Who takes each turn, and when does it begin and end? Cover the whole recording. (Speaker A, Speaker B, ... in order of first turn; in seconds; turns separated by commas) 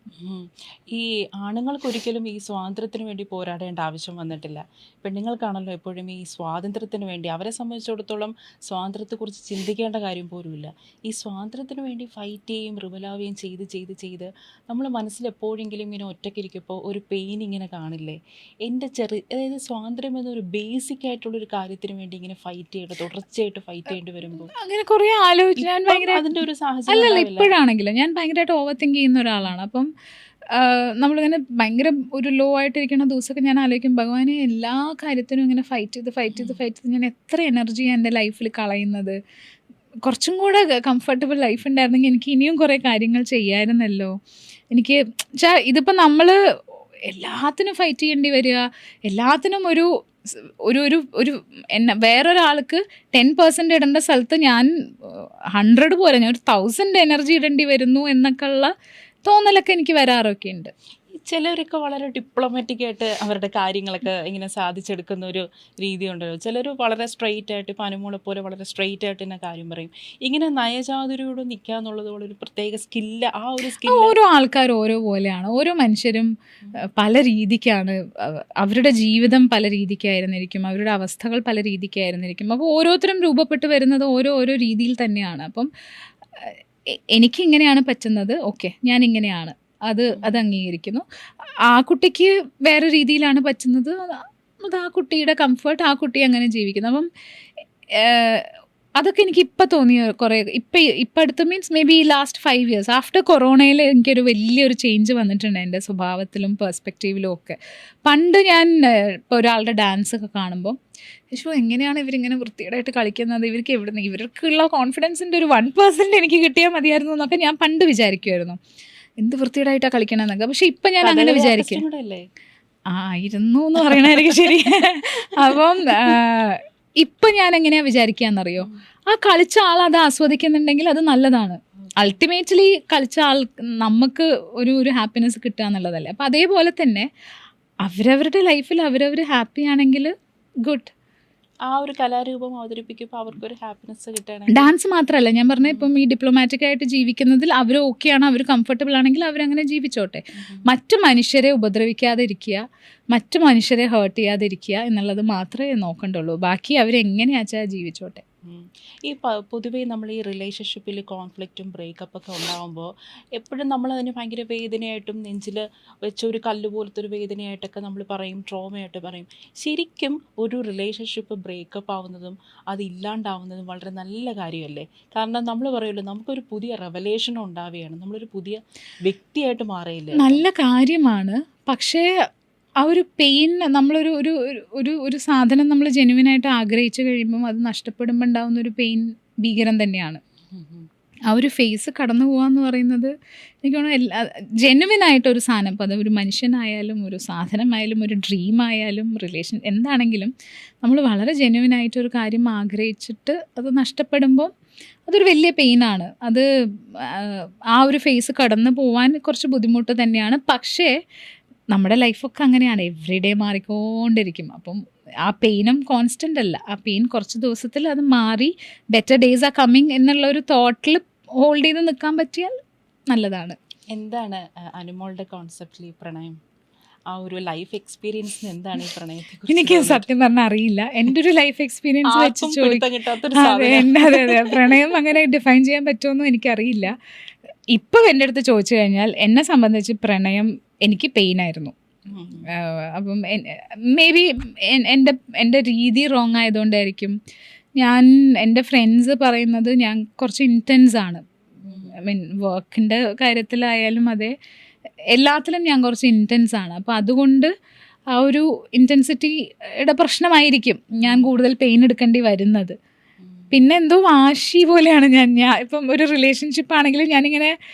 Speaker A: 0.2-24.5, Speaker B: 24.5-26.2, Speaker A: 25.6-27.5, Speaker B: 26.9-29.9, Speaker B: 30.5-39.2, Speaker A: 36.3-36.6, Speaker B: 40.0-44.1, Speaker B: 44.7-46.3, Speaker B: 47.0-58.7, Speaker B: 59.2-60.7, Speaker A: 61.1-74.1, Speaker B: 73.8-76.3, Speaker B: 77.0-85.7, Speaker B: 87.2-91.0, Speaker A: 90.1-90.4, Speaker B: 91.7-97.1, Speaker B: 98.0-110.8, Speaker B: 111.3-118.6, Speaker B: 119.2-121.8, Speaker A: 121.0-122.2, Speaker B: 122.9-137.1, Speaker A: 123.9-124.3, Speaker A: 125.5-126.2, Speaker B: 137.8-140.1, Speaker B: 140.7-140.9, Speaker A: 141.7-144.7, Speaker B: 144.5-152.6, Speaker A: 145.6-145.9, Speaker B: 153.1-158.2, Speaker A: 158.4-180.4, Speaker B: 180.2-182.1, Speaker B: 182.8-190.2, Speaker A: 190.5-190.9, Speaker B: 191.3-193.1, Speaker B: 193.6-200.3, Speaker B: 200.8-204.5, Speaker B: 205.1-206.4, Speaker B: 206.9-210.9, Speaker B: 211.7-222.5, Speaker B: 223.1-223.6, Speaker A: 223.9-226.3, Speaker A: 227.1-230.0, Speaker B: 229.5-232.8, Speaker A: 232.1-234.8, Speaker B: 233.3-236.9, Speaker B: 237.7-241.7, Speaker A: 242.1-242.5, Speaker B: 242.5-247.2, Speaker B: 247.8-254.3, Speaker A: 251.7-251.9, Speaker B: 255.1-257.5, Speaker B: 258.1-262.8, Speaker A: 261.0-261.3, Speaker A: 263.2-263.5, Speaker B: 263.5-267.5